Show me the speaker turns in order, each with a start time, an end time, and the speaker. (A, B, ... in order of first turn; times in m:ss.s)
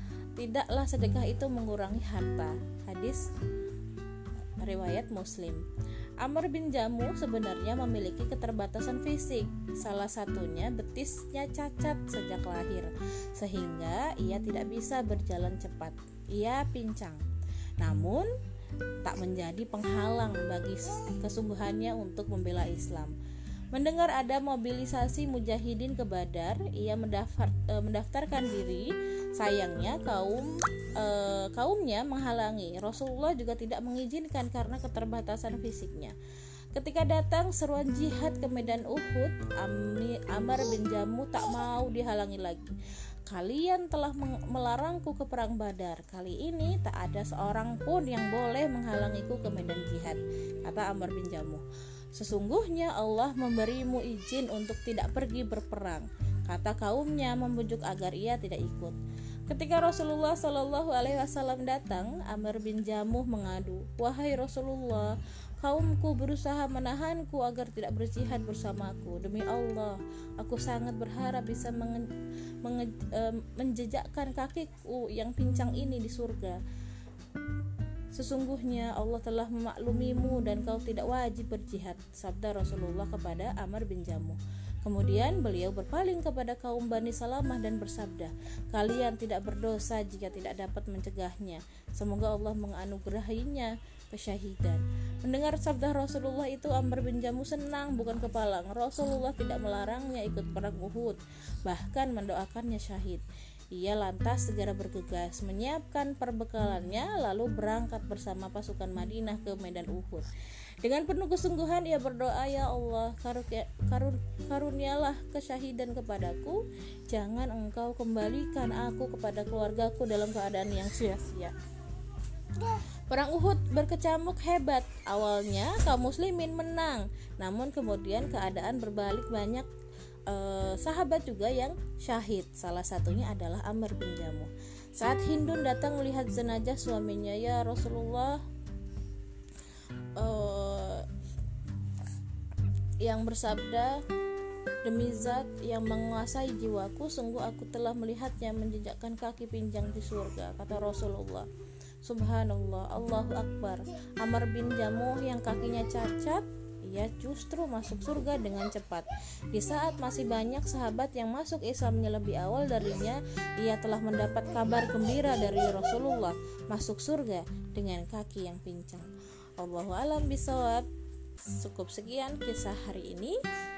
0:00.4-0:03.2 A
0:04.6-0:05.6 A
0:06.2-0:17.2 A
0:17.8-0:18.3 A
0:19.0-0:23.1 A
0:23.7-0:36.2 A
0:36.7-0:42.7 A
0:43.3-0:51.6 A
0:52.1-0:59.0 A
0:59.5-1:12.0 A
1:12.6-1:16.6 A
1:18.1-1:50.3 A
1:50.8-2:01.5 A
2:02.6-2:09.7 A
2:10.3-2:18.4 A
2:20.2-2:21.1 A
2:23.0-2:24.0 A
2:24.8-2:31.5 A
2:32.0-2:50.9 A
2:51.4-2:53.4 A